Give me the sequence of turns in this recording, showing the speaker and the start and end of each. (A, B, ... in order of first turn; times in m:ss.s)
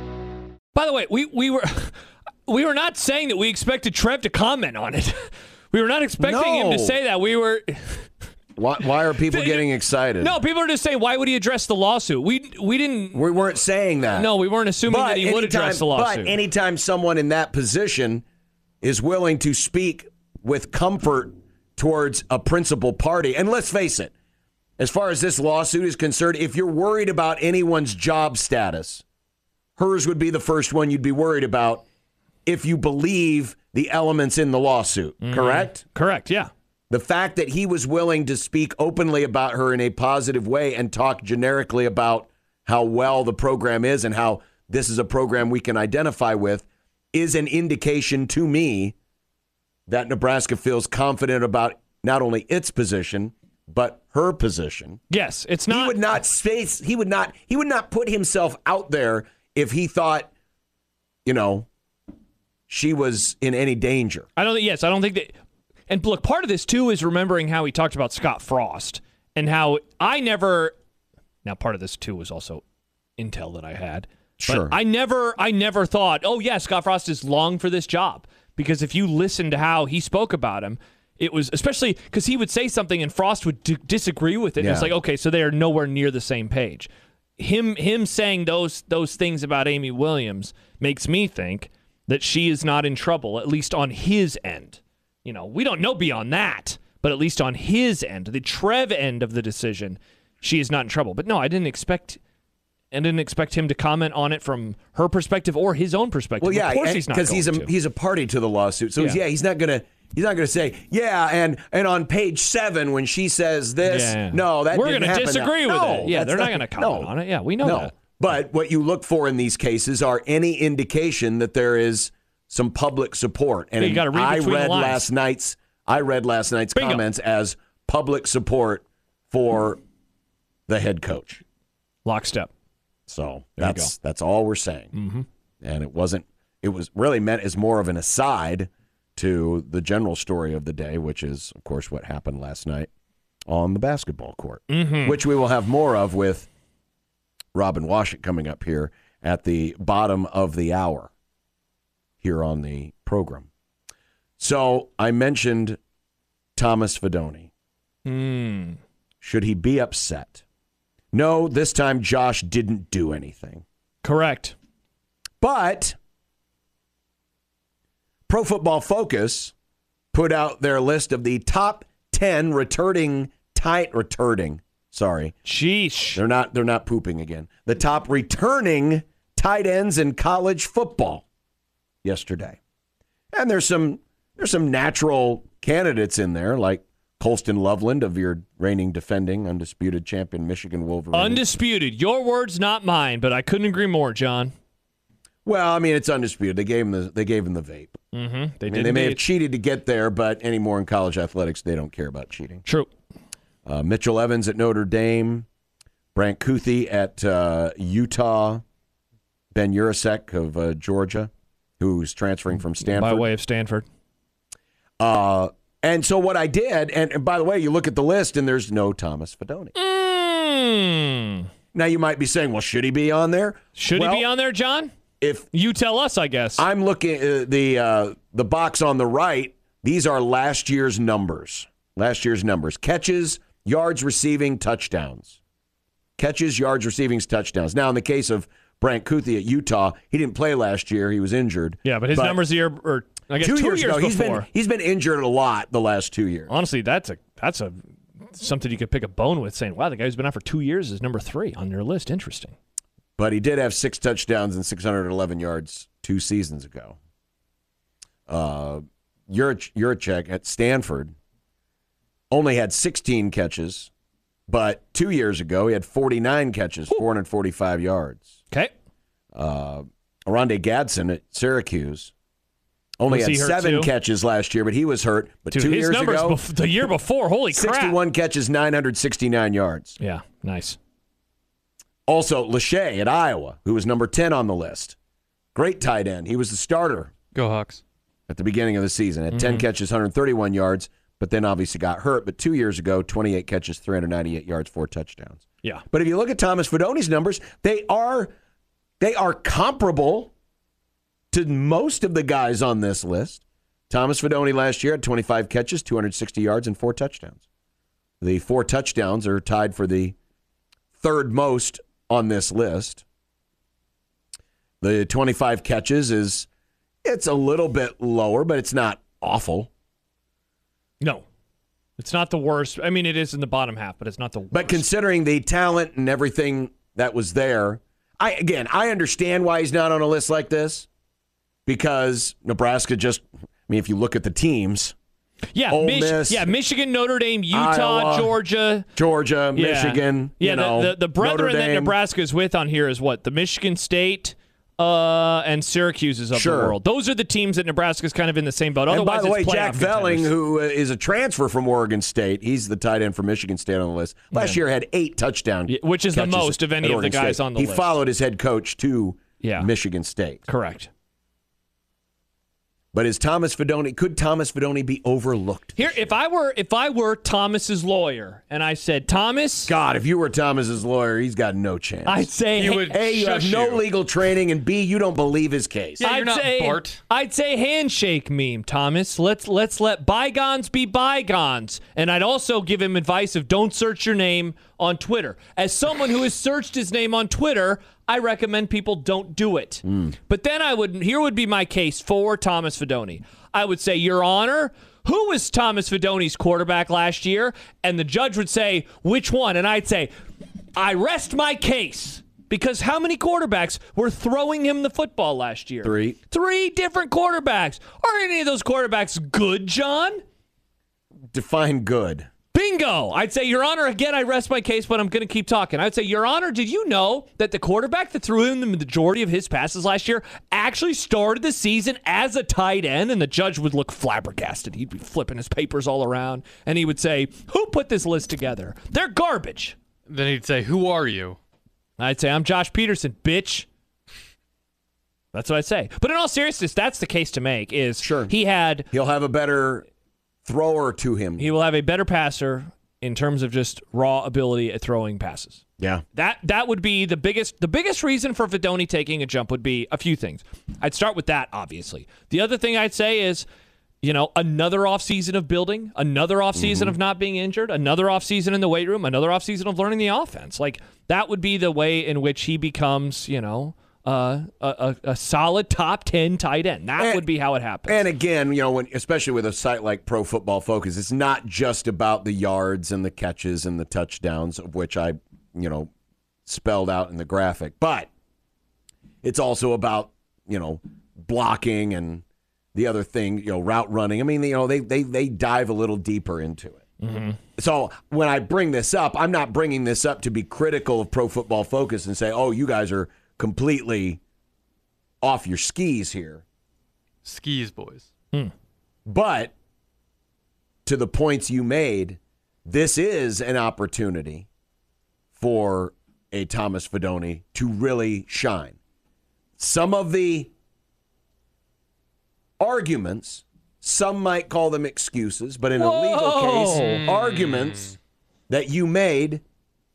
0:00.7-0:01.9 A
0:02.4-0:08.1 A
0:06.2-0:07.0 B
0:08.6-0:10.3 B
0:09.1-0:13.2 A
0:13.1-0:14.3 B
0:14.1-0:16.4 A
0:14.8-0:18.2 B
0:18.8-0:24.1 B
0:24.8-0:29.0 B
0:29.8-0:31.8 B
0:32.4-0:35.8 B
0:35.2-0:36.5 A
0:36.9-0:48.9 B
0:49.9-0:55.0 B
0:55.1-0:56.0 A
0:55.7-1:00.3 B
1:01.2-1:01.7 B
1:02.7-1:04.3 B
1:04.4-1:05.4 A
1:05.9-1:10.7 A
1:11.4-1:12.6 A
1:13.2-1:42.2 A
1:14.4-1:14.8 B
1:24.6-1:24.9 B
1:42.9-1:47.7 A
1:46.4-2:09.8 B
1:53.8-1:57.9 A
2:03.8-2:05.0 A
2:06.7-2:07.0 A
2:10.7-2:11.4 B
2:12.0-2:12.5 A
2:13.1-2:14.9 B
2:13.6-2:13.9 A
2:14.9-2:15.2 A
2:15.6-2:22.9 B
2:23.5-2:26.5 B
2:24.7-2:25.2 A
2:27.5-2:31.1 B
2:32.2-2:33.5 B
2:34.4-2:35.8 B
2:36.6-2:37.5 B
2:38.0-2:38.8 A
2:39.2-2:40.4 B
2:41.1-2:43.6 B
2:44.0-2:44.5 A
2:45.4-2:46.0 B
2:48.3-2:49.5 B
2:50.1-2:55.4 B
2:55.4-2:56.2 A
2:56.1-3:01.2 B
3:02.0-3:02.6 B
3:03.3-3:11.5 B
3:11.1-3:14.5 A
3:15.4-3:18.0 B
3:18.1-3:19.2 A
3:18.7-3:22.6 B
3:23.6-3:25.4 B
3:26.1-3:28.6 B
3:29.5-3:33.3 B
3:32.8-3:33.8 A
3:35.0-3:39.7 B
3:39.7-3:41.5 A
3:41.7-3:44.3 B
3:43.8-3:44.9 A
3:45.2-3:45.5 B
3:45.5-3:46.6 A
3:46.6-3:55.4 B
3:56.2-4:02.4 B
4:01.8-4:04.5 A
4:03.4-4:06.5 B
4:06.5-4:12.5 A
4:13.2-4:17.0 B
4:18.3-4:21.1 B
4:22.3-4:23.9 B
4:24.5-4:28.4 B
4:29.3-4:32.1 B
4:33.0-4:36.4 B
4:33.1-4:33.9 A
4:35.5-4:38.0 A
4:37.5-4:40.0 B
4:40.0-4:40.8 A
4:42.1-4:45.0 B
4:45.5-4:47.1 B
4:47.3-4:47.8 C
4:48.3-4:58.3 B
4:49.3-4:49.6 A
4:59.0-5:00.3 B
5:01.3-5:07.4 B
5:08.2-5:10.1 B
5:11.0-5:13.0 B
5:14.8-5:16.5 B
5:17.0-5:19.7 B
5:21.0-5:21.2 A
5:22.0-5:24.8 A
5:24.5-5:30.9 B
5:31.6-5:34.9 B
5:35.5-5:38.9 A
5:35.7-5:36.5 B
5:37.5-5:38.4 B
5:38.9-5:41.9 B
5:39.5-5:50.3 A
5:46.3-5:46.8 B
5:48.9-6:00.4 B
5:54.3-5:54.6 A
5:55.7-5:58.0 A
5:59.4-5:59.7 A
6:00.5-6:00.9 A
6:02.9-6:06.1 B
6:05.8-6:09.7 A
6:09.7-6:12.3 B
6:12.0-6:12.9 A
6:12.6-6:13.8 C
6:12.9-6:16.0 B
6:16.0-6:17.0 C
6:16.0-6:40.1 A
6:40.7-6:50.2 A
6:45.8-6:46.2 B
6:51.3-6:52.3 B
6:52.5-7:09.8 A
7:10.1-7:11.4 C
7:12.0-7:13.7 A
7:15.3-7:18.9 A
7:18.0-7:18.3 B
7:18.9-7:19.8 B
7:20.4-7:21.5 B
7:21.4-7:25.6 A
7:26.1-7:33.5 A
7:34.0-7:48.0 A
7:36.6-7:37.0 B
7:47.0-7:47.2 B
7:47.9-7:55.9 B
7:56.4-7:58.1 B
7:59.2-8:02.2 B
8:02.7-8:06.8 B
8:07.0-8:07.4 A
8:07.6-8:14.2 B
8:15.2-8:16.4 B
8:17.2-8:18.1 C
8:19.0-8:19.5 B
8:20.8-8:24.5 B
8:25.4-8:28.8 B
8:29.6-8:30.5 B
8:32.6-8:38.0 B
8:35.8-8:37.0 A
8:36.8-8:37.9 C
8:38.5-8:39.4 B